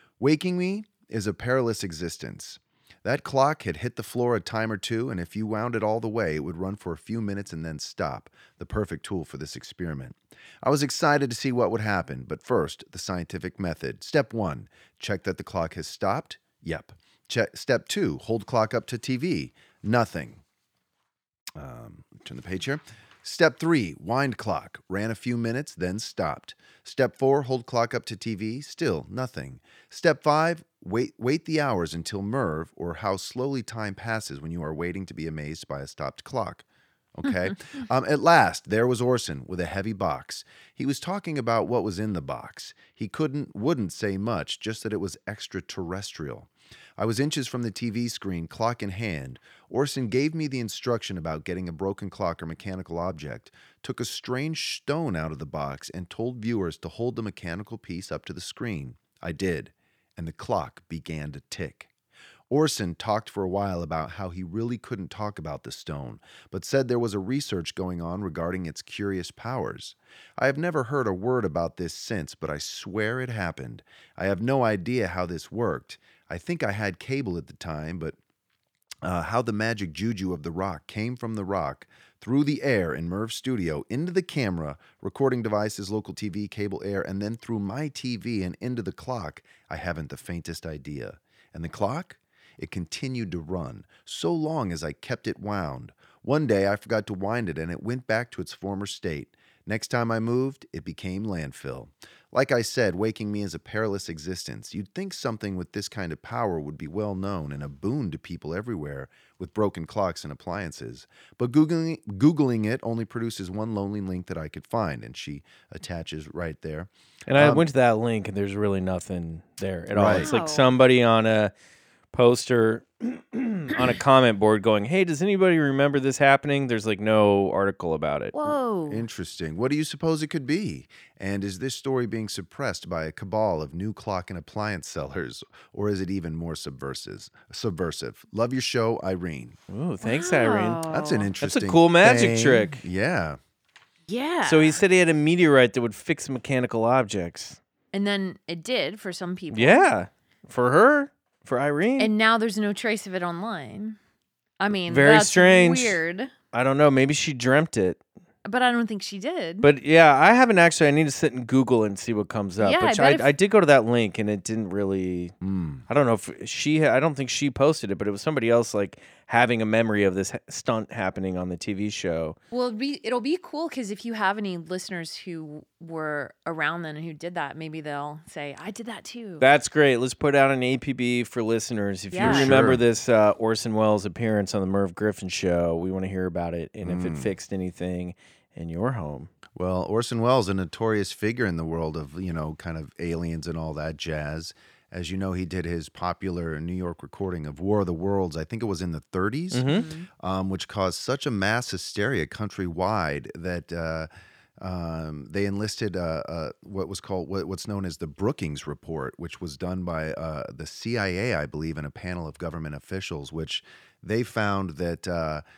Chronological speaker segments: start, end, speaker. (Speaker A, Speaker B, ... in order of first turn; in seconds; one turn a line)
Speaker A: 0.2-20.4
Speaker A: 21.6-61.9
Speaker A: 62.5-78.2
Speaker A: 79.0-117.7
Speaker B: 117.3-121.5
Speaker A: 119.9-120.3
Speaker C: 120.2-120.7
Speaker B: 122.1-128.4
Speaker C: 128.3-129.0
Speaker A: 128.9-139.6
Speaker B: 139.7-140.8
Speaker C: 140.0-141.3
Speaker A: 140.9-143.4
Speaker B: 141.4-142.8
Speaker C: 144.1-144.8
Speaker B: 144.4-147.6
Speaker C: 147.9-149.9
Speaker B: 149.5-152.1
Speaker C: 152.0-154.0
Speaker C: 154.6-156.3
Speaker B: 154.9-156.0
Speaker B: 156.5-158.0
Speaker C: 158.4-159.7
Speaker B: 159.6-165.3
Speaker C: 162.6-163.3
Speaker A: 165.4-165.8
Speaker B: 165.9-172.4
Speaker C: 172.5-179.5
Speaker B: 179.4-189.3
Speaker C: 182.1-182.5
Speaker A: 182.2-182.8
Speaker A: 186.8-187.3
Speaker A: 189.6-204.1
Speaker B: 199.5-199.9
Speaker C: 199.7-200.1
Speaker A: 204.6-215.4